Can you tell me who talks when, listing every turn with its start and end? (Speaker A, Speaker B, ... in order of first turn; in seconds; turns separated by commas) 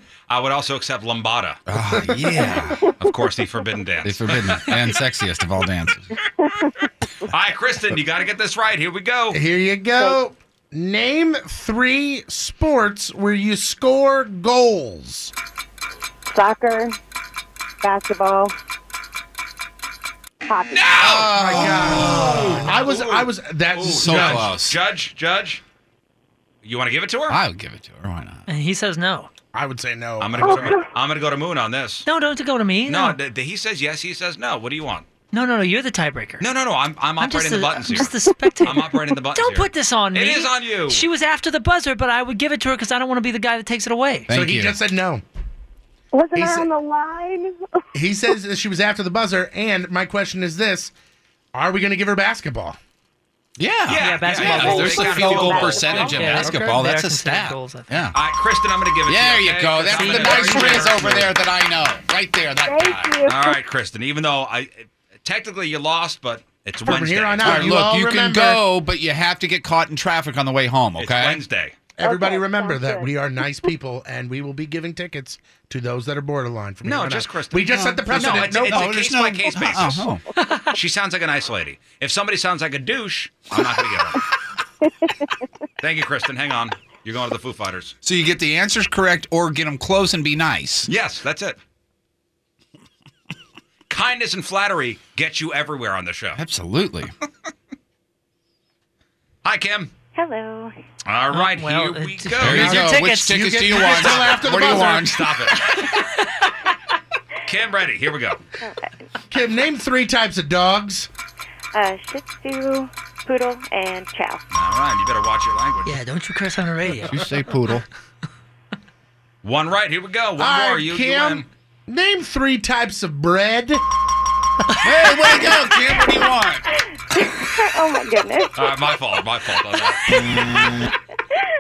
Speaker A: 0.3-1.6, Speaker B: 1.7-2.8, Speaker C: 2.0-2.4, Speaker D: 2.8-3.1, Speaker A: 3.0-5.0, Speaker B: 4.0-6.1, Speaker D: 6.4-6.7, Speaker A: 7.3-9.4, Speaker C: 9.3-15.3, Speaker D: 16.3-17.0, Speaker D: 17.8-18.5, Speaker D: 20.5-21.0, Speaker A: 20.7-25.6, Speaker B: 21.0-22.6, Speaker C: 21.3-24.5, Speaker B: 23.9-24.8, Speaker A: 26.6-27.4, Speaker B: 27.3-28.4, Speaker E: 28.5-29.3, Speaker C: 29.5-30.8, Speaker A: 30.2-32.1, Speaker D: 30.4-30.9, Speaker E: 32.1-33.2, Speaker A: 32.9-35.0, Speaker E: 35.3-36.5, Speaker A: 36.4-38.1, Speaker E: 37.2-44.3, Speaker A: 38.6-41.0, Speaker B: 44.3-44.8, Speaker C: 44.3-45.2, Speaker D: 46.1-47.6, Speaker C: 46.4-46.7, Speaker C: 48.0-50.9, Speaker C: 51.5-52.8, Speaker B: 53.6-58.2, Speaker A: 53.9-56.4, Speaker E: 53.9-57.9, Speaker D: 55.6-56.0, Speaker A: 58.1-61.3, Speaker B: 59.1-63.2, Speaker D: 60.0-60.9, Speaker D: 62.6-63.6, Speaker A: 63.3-67.8, Speaker C: 66.9-68.6, Speaker B: 67.4-71.4, Speaker A: 71.0-71.8, Speaker C: 72.0-79.0, Speaker D: 72.0-73.1, Speaker A: 76.8-80.1, Speaker B: 77.7-80.2, Speaker A: 80.7-84.2, Speaker D: 84.8-85.3, Speaker A: 85.8-88.0, Speaker B: 88.0-90.9, Speaker A: 90.9-91.6, Speaker A: 93.9-96.4, Speaker B: 96.3-97.1, Speaker A: 99.4-99.9, Speaker D: 100.1-100.8, Speaker A: 101.1-102.8, Speaker E: 101.3-103.5, Speaker B: 102.4-105.5, Speaker C: 102.5-105.1, Speaker A: 103.7-105.8, Speaker E: 105.8-106.0, Speaker A: 107.5-108.4, Speaker D: 108.6-109.0, Speaker C: 109.3-111.1, Speaker D: 111.7-114.4, Speaker A: 114.5-116.0, Speaker E: 115.8-117.3, Speaker B: 117.0-117.8, Speaker A: 119.4-121.5, Speaker C: 120.4-123.8, Speaker B: 124.8-126.6, Speaker D: 127.0-128.8, Speaker A: 128.6-130.5